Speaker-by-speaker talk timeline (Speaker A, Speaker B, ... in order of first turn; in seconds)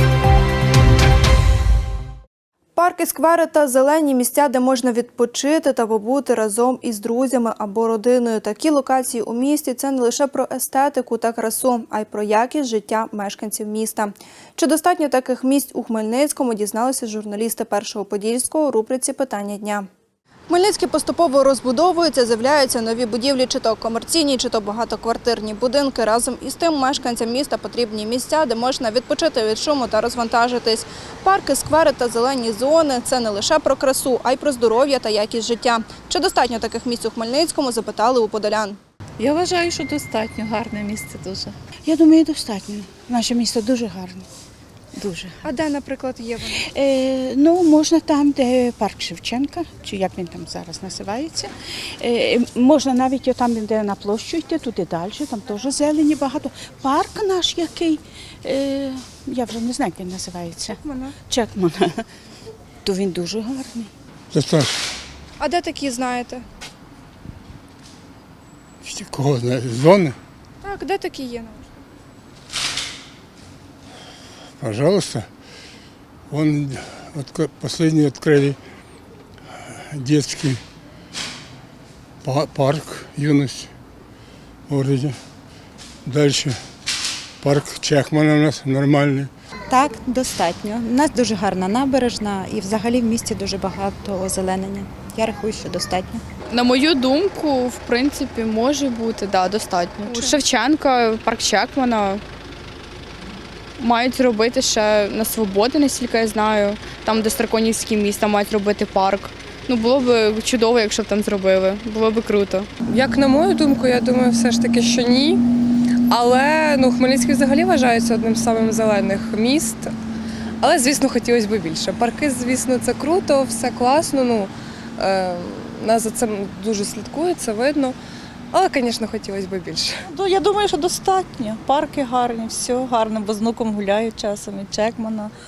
Speaker A: 2.8-19.9, 20.5-38.8, 45.4-46.6, 60.8-61.1, 65.4-66.4, 70.6-71.7
Speaker B: 39.2-41.5, 89.7-96.2, 129.9-135.3
Speaker C: 41.9-44.2, 45.0-45.3, 46.7-51.5, 52.0-60.8, 61.3-61.9, 62.8-63.9
Speaker D: 64.3-64.7, 68.8-70.2, 74.6-75.3, 76.3-78.6, 79.9-80.6, 82.2-83.7, 84.7-85.2, 86.0-86.6, 87.4-89.3
Speaker E: 96.5-102.2, 103.8-112.7
Speaker F: 112.8-115.4, 116.1-119.9, 120.6-128.0, 128.5-129.9